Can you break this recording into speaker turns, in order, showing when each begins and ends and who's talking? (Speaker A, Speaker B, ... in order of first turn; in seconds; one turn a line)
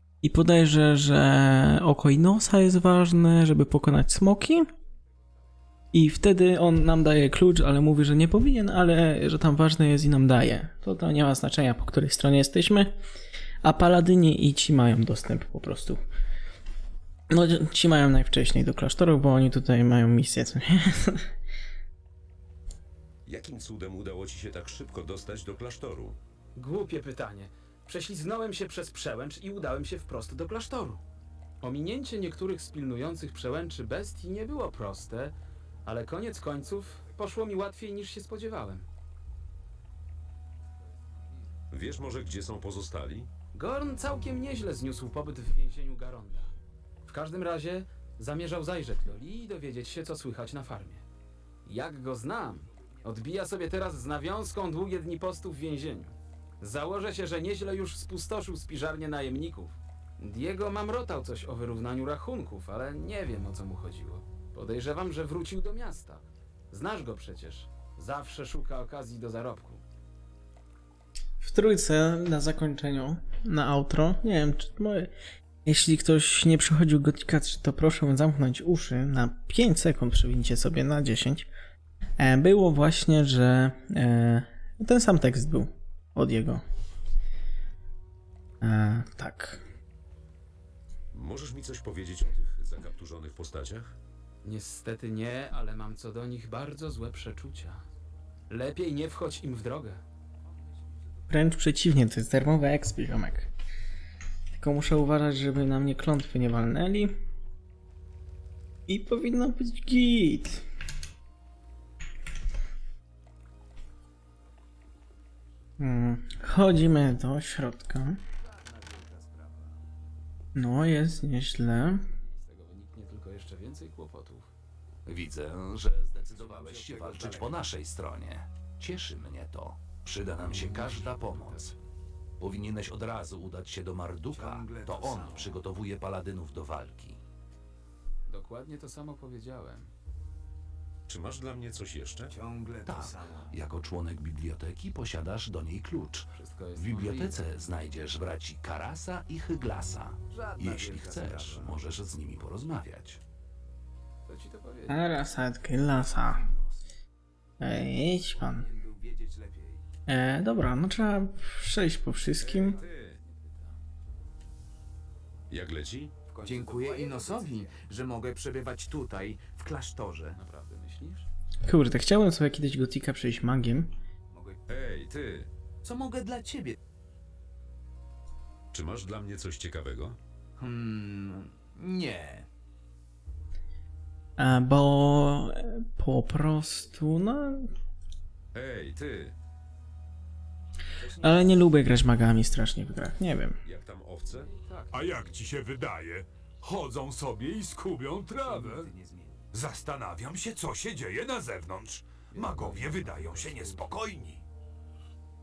Speaker A: 0.2-4.7
Speaker A: 5.9-13.0
Speaker A: 13.6-16.0
Speaker A: 17.3-21.3
Speaker B: 23.3-26.2
Speaker C: 26.6-31.0
Speaker C: 31.6-35.4
Speaker C: 35.9-38.9
Speaker B: 41.7-43.3
Speaker C: 43.5-46.5
Speaker C: 47.1-51.0
Speaker C: 51.6-69.8
Speaker D: 52.5-53.1
Speaker A: 71.4-75.1
Speaker A: 75.7-81.5
Speaker A: 82.2-86.6
Speaker A: 88.6-89.6
Speaker B: 91.1-94.0
Speaker C: 94.4-97.8
Speaker C: 98.5-100.0
Speaker D: 100.4-101.3
Speaker A: 101.3-103.5
Speaker A: 104.6-107.2
Speaker A: 108.9-110.7
Speaker A: 115.8-118.2
Speaker D: 118.4-119.8
Speaker A: 120.5-122.1
Speaker C: 122.2-124.5
Speaker E: 125.1-131.8
Speaker D: 126.3-127.7
Speaker C: 130.4-131.7
Speaker D: 130.6-131.0
Speaker E: 132.4-137.2
Speaker D: 134.3-135.6
Speaker C: 138.3-139.9
Speaker B: 141.1-142.3
Speaker D: 142.3-143.6
Speaker E: 142.9-153.2
Speaker C: 146.3-147.4
Speaker D: 150.3-151.8
Speaker C: 154.3-155.1
Speaker A: 154.9-156.5
Speaker D: 156.2-156.8
Speaker A: 157.6-158.7
Speaker D: 158.4-159.8
Speaker A: 160.1-162.8
Speaker B: 162.4-163.2
Speaker C: 162.5-163.8
Speaker B: 165.5-166.1
Speaker D: 166.3-170.4
Speaker E: 166.5-167.4
Speaker C: 170.3-171.3
Speaker A: 171.7-173.9
Speaker D: 174.3-174.6
Speaker B: 174.7-175.5
Speaker D: 175.8-176.8
Speaker B: 178.7-180.2
Speaker D: 180.6-182.5
Speaker A: 184.4-187.7
Speaker B: 188.5-189.3
Speaker D: 191.0-191.6
Speaker A: 191.2-193.6
Speaker B: 193.7-194.5
Speaker C: 194.3-195.4
Speaker F: 194.9-198.9
Speaker D: 198.3-199.5
Speaker F: 199.5-204.4
Speaker C: 202.3-204.0